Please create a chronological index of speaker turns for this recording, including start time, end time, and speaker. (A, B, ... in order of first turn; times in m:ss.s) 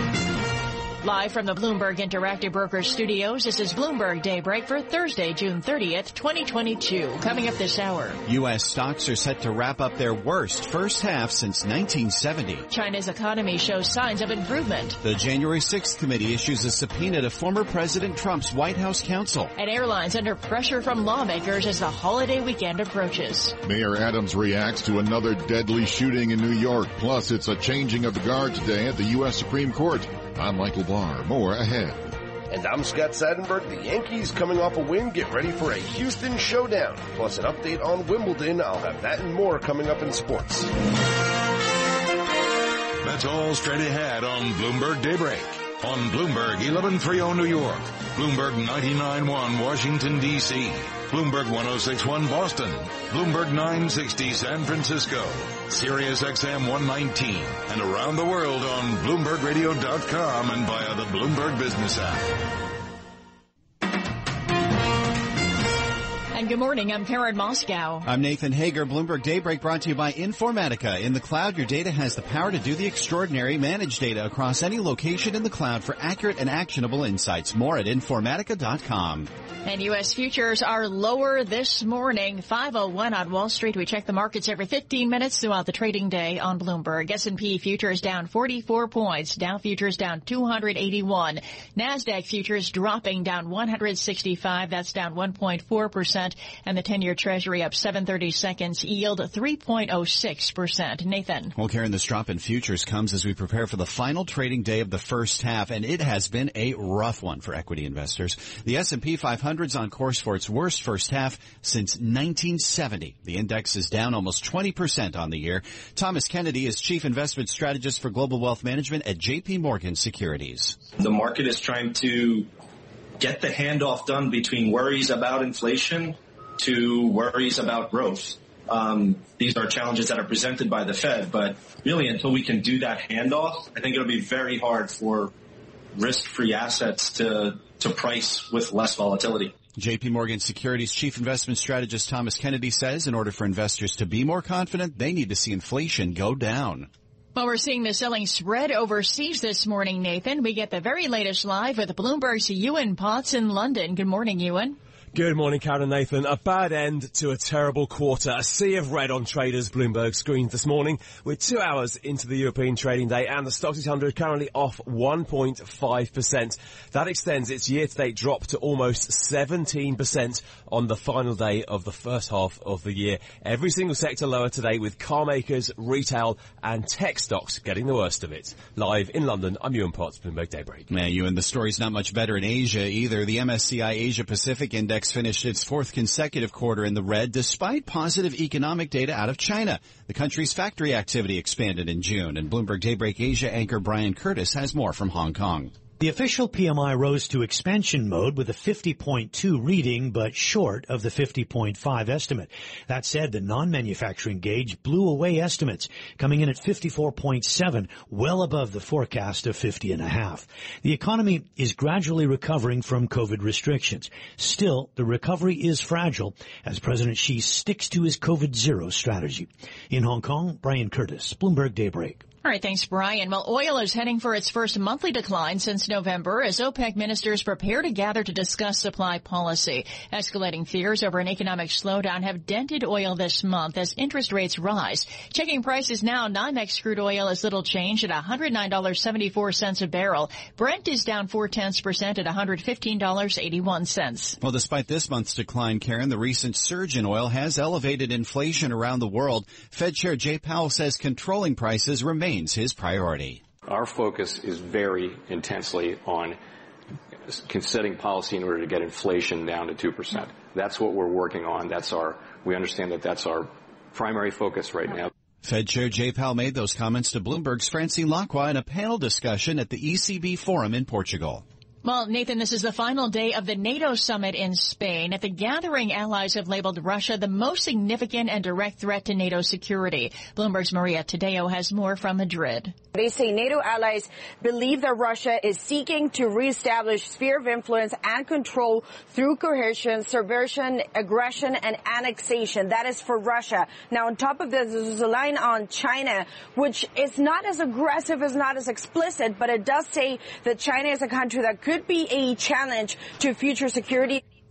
0:01.0-0:08.2 A
0:08.3-0:12.7 B
0:12.7-0:15.0 A
0:15.0-0:19.5 B
0:19.6-0:23.6 A
0:23.6-0:32.1 C
0:32.5-0:40.7 D
0:43.0-1:02.3 E
1:06.3-1:08.1 A
1:08.0-1:19.3 B
1:19.6-1:41.5 A
1:41.6-2:00.8 B
2:01.0-2:02.5 F
2:03.2-2:15.3 F
2:16.0-2:19.5 F
2:19.8-2:26.9 B
2:27.4-2:34.8 A
2:35.1-3:00.9 G
3:00.9-3:15.7 B
3:16.0-3:42.2 H
3:42.4-4:04.4 A
4:04.4-4:13.4 B
4:13.6-4:16.4 I
4:17.3-4:25.1 I
4:25.4-4:31.4 B
4:31.8-4:42.8 A
4:43.0-5:04.2 J